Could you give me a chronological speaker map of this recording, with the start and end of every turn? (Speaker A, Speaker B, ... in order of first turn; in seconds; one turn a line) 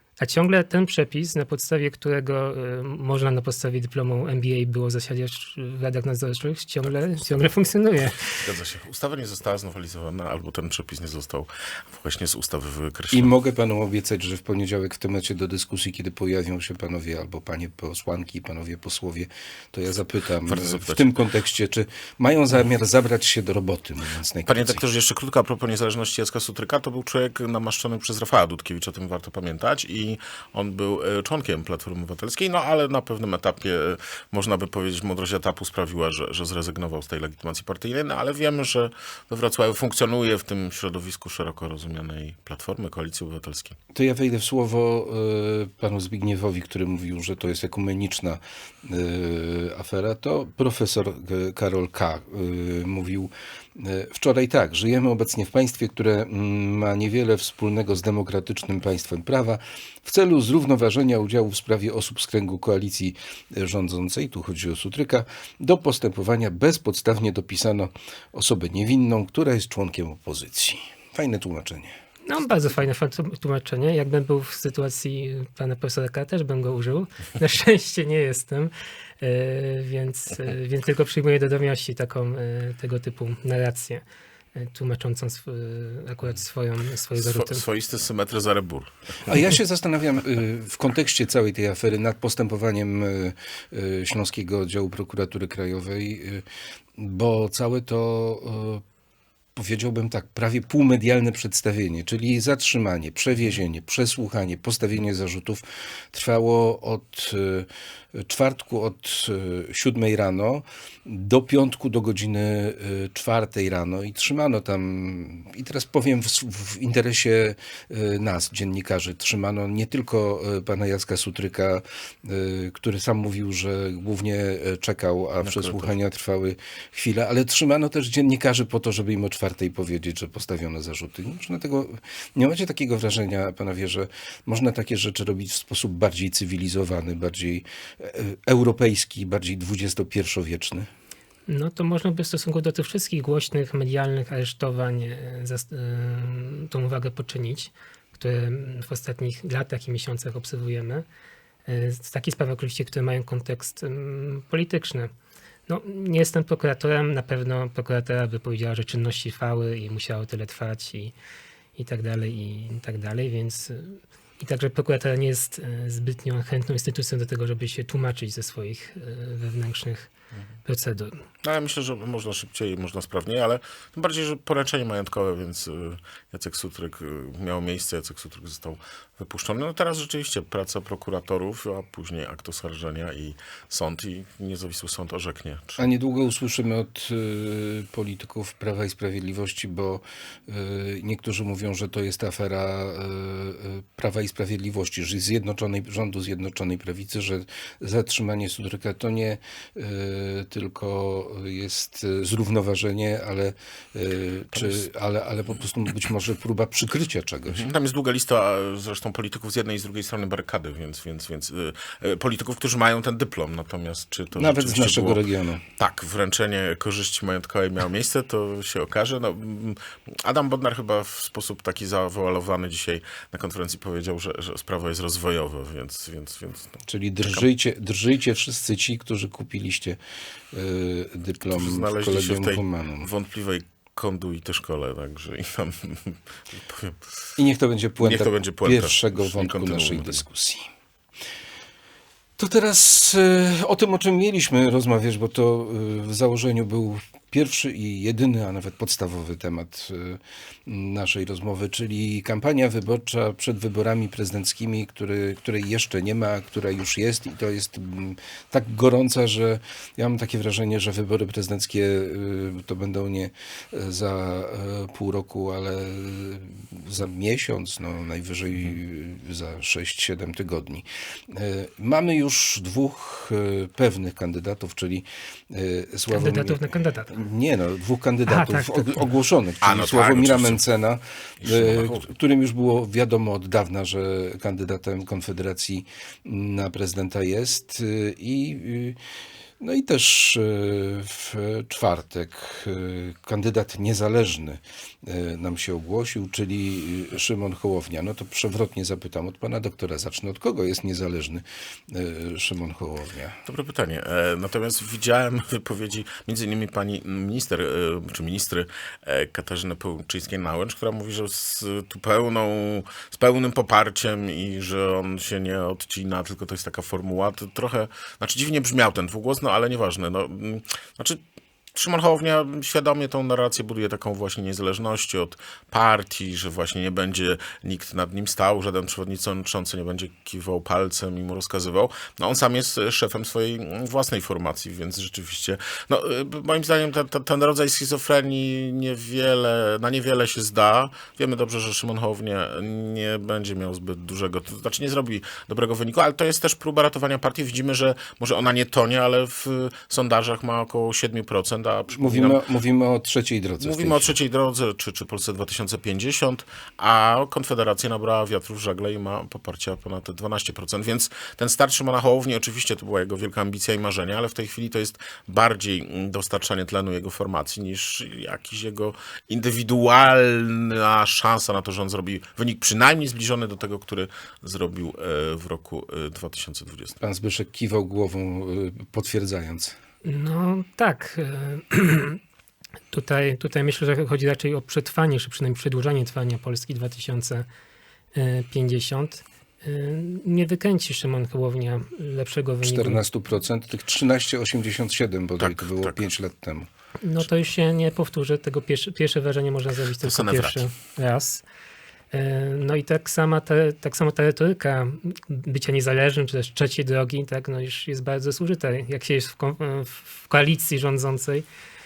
Speaker A: 0.2-8.4
Speaker B: 6.8-7.5
Speaker B: 8.3-13.3
Speaker C: 13.1-24.8
Speaker B: 20.4-21.1
Speaker B: 24.4-43.8
Speaker C: 43.9-71.9
Speaker A: 72.3-84.0
Speaker A: 84.6-87.6
Speaker B: 87.2-88.9
Speaker C: 89.2-96.4
Speaker C: 97.0-98.8
Speaker C: 99.6-140.9
Speaker B: 125.4-125.9
Speaker A: 141.5-151.0
Speaker A: 151.7-155.1
Speaker A: 155.7-161.1
Speaker A: 161.8-170.1
Speaker A: 170.7-171.2
Speaker B: 171.4-185.8
Speaker C: 185.8-207.7
Speaker B: 204.5-204.8
Speaker B: 207.5-215.2
Speaker C: 214.3-215.6
Speaker B: 215.8-227.4
Speaker C: 226.8-230.0
Speaker C: 230.5-233.1
Speaker B: 231.5-237.0
Speaker C: 237.4-240.6
Speaker B: 238.0-240.2
Speaker C: 242.4-289.0
Speaker A: 276.1-277.1
Speaker A: 278.3-279.0
Speaker B: 279.6-280.6
Speaker B: 281.4-282.0
Speaker C: 289.6-303.4
Speaker B: 303.4-321.2
Speaker B: 321.7-352.4
Speaker C: 351.9-354.2
Speaker B: 353.6-376.9
Speaker C: 377.0-379.8
Speaker A: 380.0-382.2
Speaker A: 382.9-387.4
Speaker A: 388.1-393.0
Speaker C: 392.6-396.7
Speaker B: 395.4-396.0
Speaker A: 397.0-401.4
Speaker B: 400.0-400.6
Speaker A: 402.1-411.4